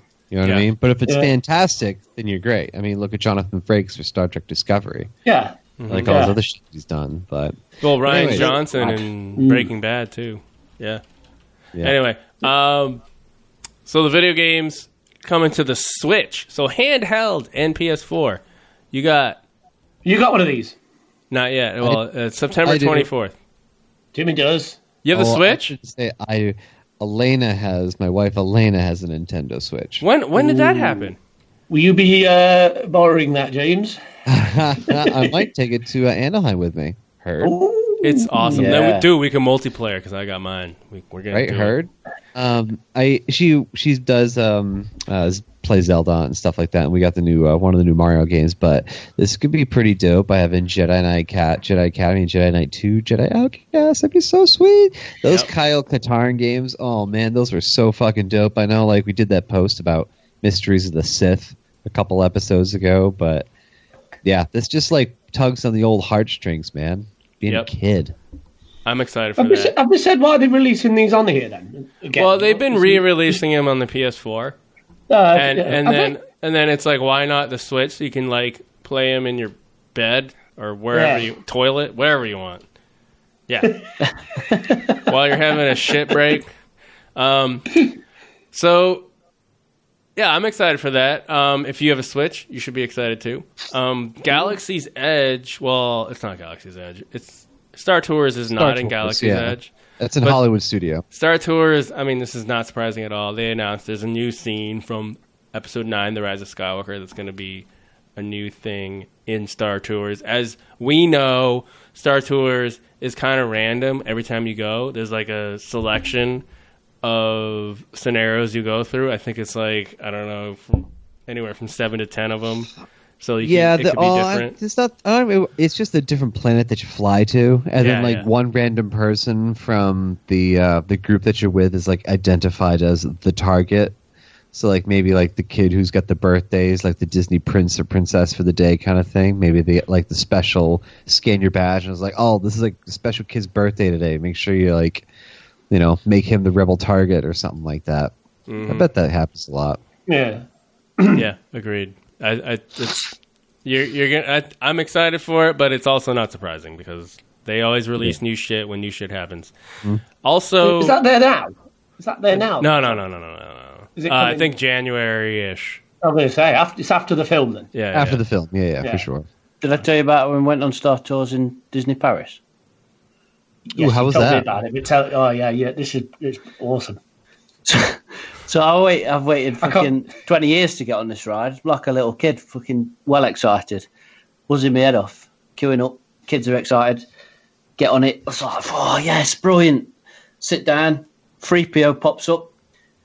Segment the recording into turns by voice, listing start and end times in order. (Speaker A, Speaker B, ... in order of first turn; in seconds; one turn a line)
Speaker A: 0.3-5.1
Speaker B: 5.3-6.4
Speaker C: 5.8-6.3
Speaker A: 5.9-9.0
Speaker C: 7.8-11.0
Speaker B: 8.1-9.7
Speaker C: 11.8-13.0
Speaker C: 13.9-18.4
Speaker C: 18.9-19.4
Speaker B: 20.1-20.8
Speaker C: 21.3-23.3
Speaker A: 22.6-23.1
Speaker B: 24.1-24.8
Speaker C: 25.0-25.7
Speaker A: 25.1-30.1
Speaker C: 30.0-31.2
Speaker B: 30.4-31.1
Speaker B: 31.7-34.0
Speaker A: 34.3-37.6
Speaker B: 34.9-35.3
Speaker B: 37.4-38.7
Speaker C: 38.0-41.8
Speaker D: 38.5-39.1
Speaker A: 41.3-63.5
Speaker A: 64.2-68.2
Speaker C: 68.9-69.8
Speaker B: 69.4-73.4
Speaker C: 72.2-74.6
Speaker B: 75.1-76.1
Speaker C: 75.3-82.6
Speaker B: 80.9-81.2
Speaker C: 83.5-83.8
Speaker C: 85.1-86.5
Speaker C: 87.2-87.8
Speaker C: 88.5-89.1
Speaker C: 90.2-99.7
Speaker A: 98.6-101.0
Speaker C: 101.1-116.4
Speaker C: 117.0-124.5
Speaker A: 123.4-133.9
Speaker C: 127.8-128.3
Speaker A: 134.5-145.1
Speaker A: 145.7-148.1
Speaker C: 148.5-148.9
Speaker A: 148.7-149.8
Speaker B: 150.1-150.4
Speaker B: 151.0-151.2
Speaker C: 151.2-159.5
Speaker C: 160.2-161.0
Speaker B: 160.6-163.0
Speaker C: 162.3-165.8
Speaker B: 164.0-164.5
Speaker B: 166.0-167.7
Speaker C: 167.7-168.2
Speaker A: 167.9-169.3
Speaker D: 169.6-172.4
Speaker B: 173.7-177.0
Speaker A: 173.8-174.6
Speaker D: 177.7-183.9
Speaker B: 179.6-179.9
Speaker D: 184.5-187.1
Speaker D: 187.8-192.5